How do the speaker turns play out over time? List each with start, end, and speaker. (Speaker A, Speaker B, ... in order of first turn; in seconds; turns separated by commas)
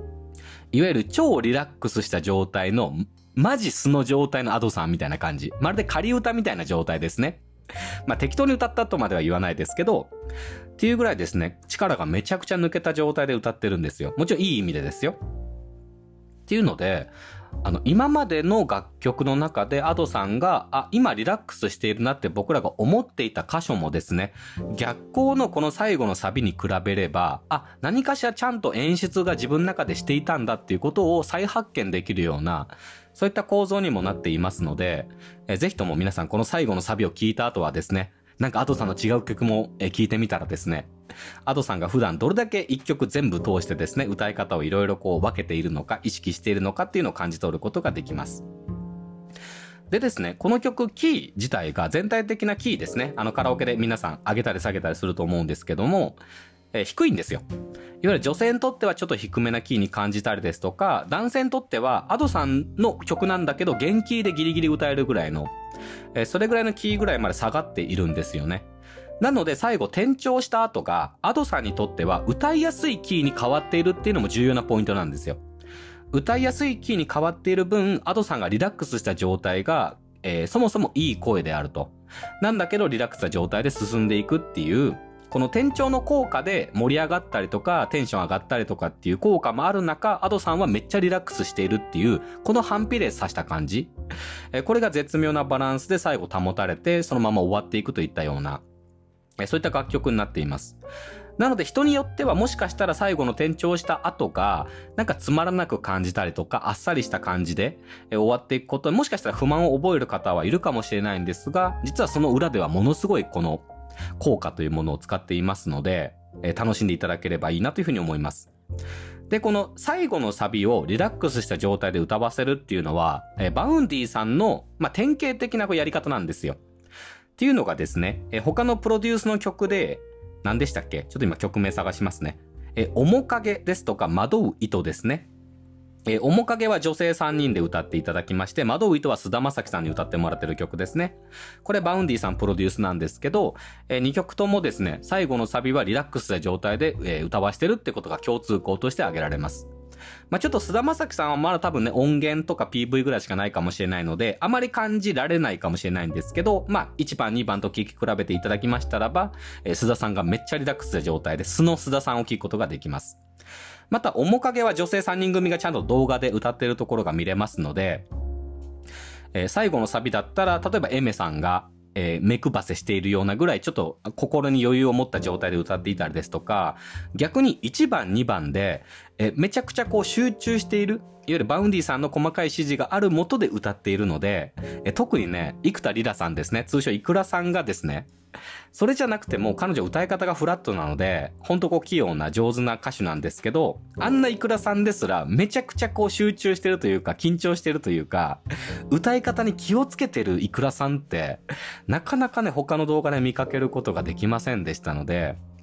Speaker A: 0.7-7.4, Speaker A: 8.1-10.1, Speaker A: 10.8-15.2, Speaker A: 16.5-17.1, Speaker A: 17.6-40.9, Speaker A: 41.5-48.5, Speaker A: 49.9-56.2, Speaker A: 56.7-57.4, Speaker A: 58.0-65.5, Speaker A: 66.1-68.7, Speaker A: 69.2-75.4, Speaker A: 76.1-93.9, Speaker A: 94.5-98.6, Speaker A: 99.4-100.8, Speaker A: 101.4-113.6, Speaker A: 114.2-118.5, Speaker A: 119.3-126.6, Speaker A: 127.4-135.3, Speaker A: 136.1-149.7, Speaker A: 150.3-163.2, Speaker A: 163.9-168.1, Speaker A: 169.3-188.1, Speaker A: 188.7-205.4